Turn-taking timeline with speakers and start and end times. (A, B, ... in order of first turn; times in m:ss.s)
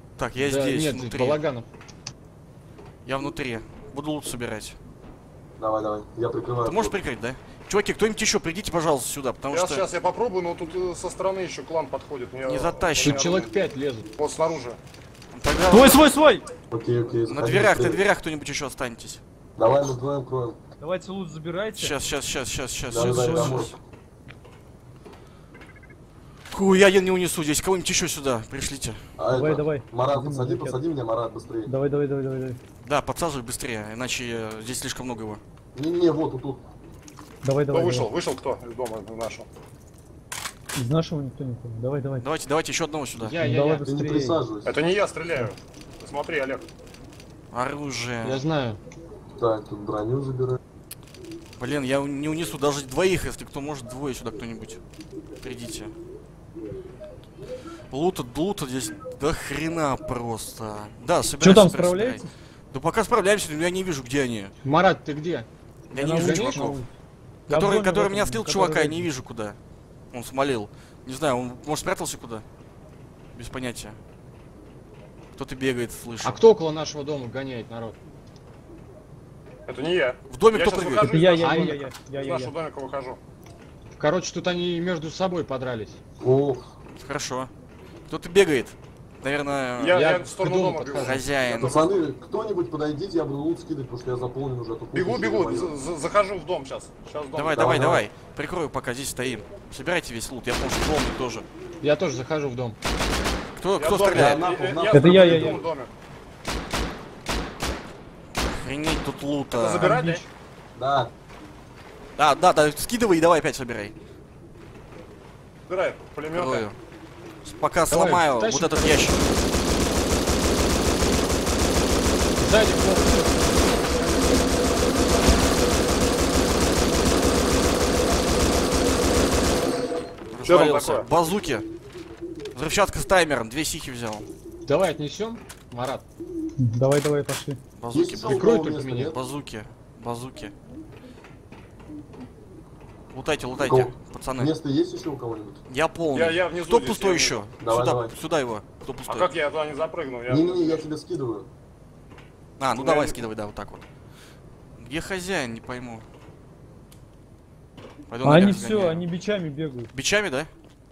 0:00.2-0:01.4 A
0:00.4-0:01.6 B
0:03.0-0:04.8 A
0:05.6-0:07.0 C
0:06.6-0:09.8 A
0:09.5-0:13.5 D
0:12.4-0:13.5 A
0:13.0-0:14.0 B
0:14.2-0:14.8 D
0:15.3-0:16.0 A
0:15.7-0:16.4 E
0:16.7-0:18.0 C
0:17.3-0:19.2 A
0:19.6-0:20.6 C
0:20.8-0:21.9 E
0:21.8-0:23.7 A
0:22.9-0:23.7 C
0:22.9-0:23.7 E
0:26.5-0:29.0 A
0:29.2-0:31.7 C
0:29.3-0:30.8 E
0:31.6-0:32.6 E
0:32.8-0:35.4 A
0:35.7-0:36.6 C
0:37.4-0:38.1 E
0:37.7-0:39.4 D
0:40.7-0:42.2 E
0:42.2-0:43.4 A
0:43.2-0:43.9 B
0:43.4-0:44.4 E
0:43.8-0:44.8 C
0:44.6-0:46.6 D
0:47.5-0:48.4 A
0:48.2-0:48.8 B
0:49.4-0:50.6 C
0:51.6-0:54.8 A
0:55.4-0:55.9 A
0:57.9-1:04.5 A
1:01.4-1:02.3 E
1:04.6-1:05.5 B
1:05.9-1:06.8 A
1:05.9-1:06.9 E
1:06.1-1:06.8 B
1:07.5-1:09.1 E
1:07.5-1:09.6 A
1:10.1-1:12.4 A
1:13.3-1:14.0 A
1:15.4-1:16.4 A
1:16.2-1:18.0 B
1:19.7-1:23.2 D
1:20.3-1:21.2 A
1:21.0-1:22.5 E
1:21.4-1:21.8 B
1:24.0-1:26.0 B
1:26.2-1:26.6 C
1:26.9-1:27.5 A
1:28.1-1:30.0 A
1:29.8-1:31.9 D
1:29.9-1:31.2 B
1:31.0-1:31.8 A
1:31.5-1:35.7 C
1:34.9-1:38.0 D
1:37.4-1:41.4 A
1:37.5-1:38.1 C
1:41.8-1:42.8 B
1:43.6-1:44.4 A
1:43.8-1:45.9 D
1:44.1-1:45.6 C
1:44.9-1:45.6 E
1:48.4-1:50.0 A
1:49.5-1:50.2 D
1:49.9-1:50.2 B
1:50.7-1:51.1 C
1:52.2-1:53.9 A
1:55.7-1:56.6 D
1:56.3-1:56.8 A
1:57.4-1:59.2 A
1:57.9-1:59.3 B
2:02.4-2:03.9 B
2:10.3-2:11.7 A
2:10.4-2:11.1 D
2:12.5-2:14.2 A
2:14.6-2:16.0 B
2:16.6-2:17.6 E
2:17.8-2:18.4 A
2:17.9-2:19.2 C
2:18.2-2:19.1 B
2:19.0-2:20.5 A
2:23.1-2:24.5 A
2:23.6-2:25.6 C
2:25.7-2:29.3 A
2:26.1-2:27.4 D
2:27.6-2:28.1 C
2:29.1-2:30.8 D
2:30.3-2:31.5 C
2:32.6-2:33.8 A
2:32.8-2:33.2 D
2:34.8-2:36.0 A
2:38.1-2:39.0 A
2:38.2-2:39.9 E
2:39.9-2:40.5 A